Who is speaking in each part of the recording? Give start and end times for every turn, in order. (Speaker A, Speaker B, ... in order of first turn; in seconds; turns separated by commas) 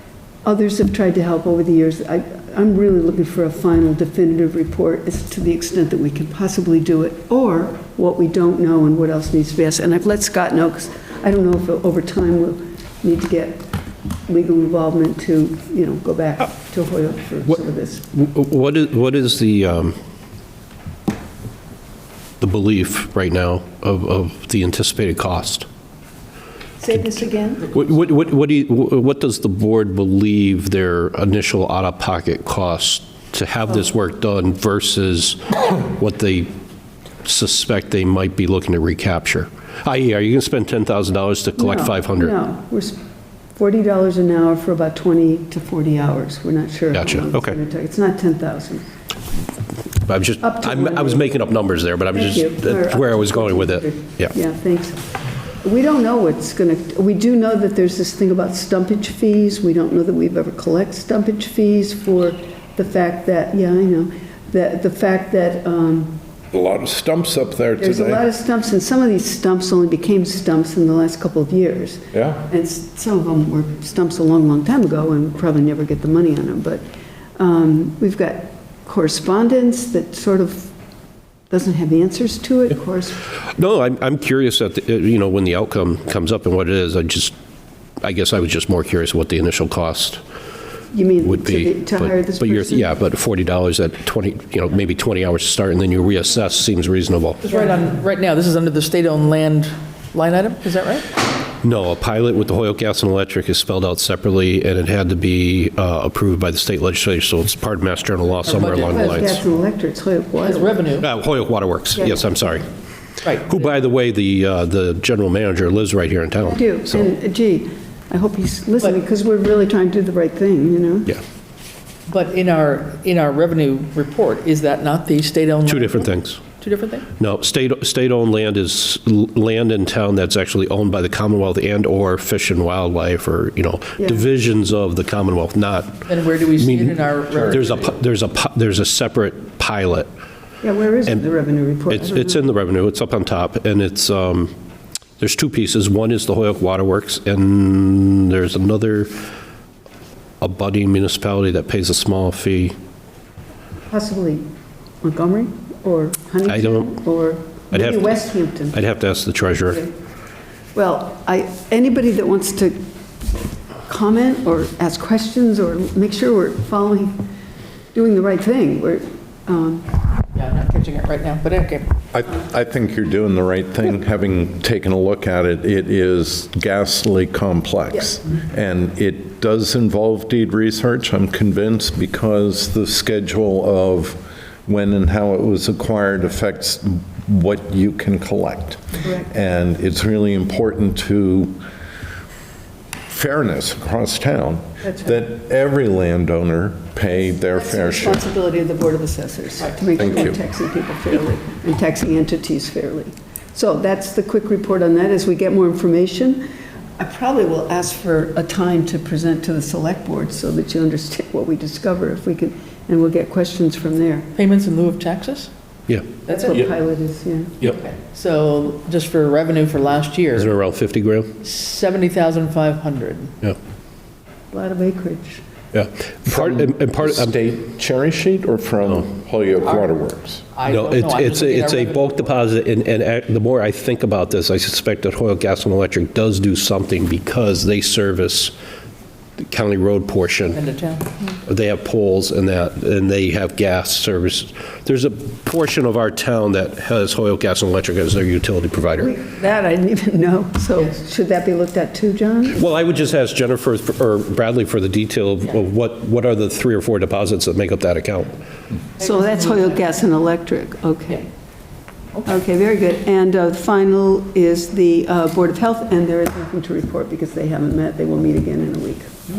Speaker A: 0.4-13.7, Speaker A: 14.3-18.1, Speaker B: 18.1-19.9, Speaker B: 22.4-25.6, Speaker A: 26.8-27.8, Speaker B: 27.7-36.5, Speaker B: 37.2-42.3, Speaker A: 41.6-43.0, Speaker A: 43.5-48.9, Speaker B: 46.9-47.6, Speaker B: 50.0-54.3, Speaker A: 50.4-51.4, Speaker A: 52.1-66.2, Speaker C: 66.5-68.2, Speaker A: 67.8-76.8, Speaker C: 72.1-72.4, Speaker A: 77.3-80.7, Speaker A: 81.5-83.2, Speaker B: 83.5-87.3, Speaker B: 88.0-90.2, Speaker A: 90.9-92.9, Speaker B: 91.2-97.4, Speaker D: 97.4-101.1, Speaker B: 101.6-109.4, Speaker D: 108.4-109.3, Speaker A: 108.9-110.9, Speaker D: 110.4-111.1, Speaker B: 111.0-112.6, Speaker A: 111.9-112.3, Speaker D: 113.2-113.7, Speaker B: 113.4-117.0, Speaker A: 116.4-121.2, Speaker D: 122.1-127.0, Speaker B: 125.7-126.4, Speaker B: 127.2-140.1, Speaker A: 134.0-134.2, Speaker D: 136.1-137.9, Speaker C: 137.3-137.6, Speaker A: 140.6-142.4, Speaker B: 141.9-144.5, Speaker B: 145.2-149.1, Speaker B: 150.4-152.7, Speaker A: 153.9-154.5, Speaker A: 155.0-158.8, Speaker B: 156.4-156.9, Speaker B: 157.7-158.2, Speaker B: 158.7-159.8, Speaker A: 160.7-162.8, Speaker A: 163.8-167.2, Speaker A: 167.9-169.9, Speaker D: 170.3-172.0, Speaker C: 172.1-191.6, Speaker C: 193.1-198.2, Speaker A: 197.5-206.5, Speaker C: 200.0-200.4, Speaker A: 207.0-214.3, Speaker D: 214.3-215.5, Speaker D: 216.2-216.7, Speaker A: 216.3-217.6, Speaker D: 217.6-220.5, Speaker B: 220.3-221.3, Speaker D: 221.4-223.3, Speaker A: 224.5-225.4, Speaker B: 225.7-227.3, Speaker C: 226.3-230.4, Speaker D: 230.5-232.3, Speaker B: 230.7-238.5, Speaker B: 239.4-240.6, Speaker D: 240.5-241.4, Speaker B: 241.4-249.1, Speaker A: 249.0-252.7, Speaker B: 252.6-258.4, Speaker A: 259.0-261.3, Speaker D: 259.0-259.4, Speaker A: 262.2-269.1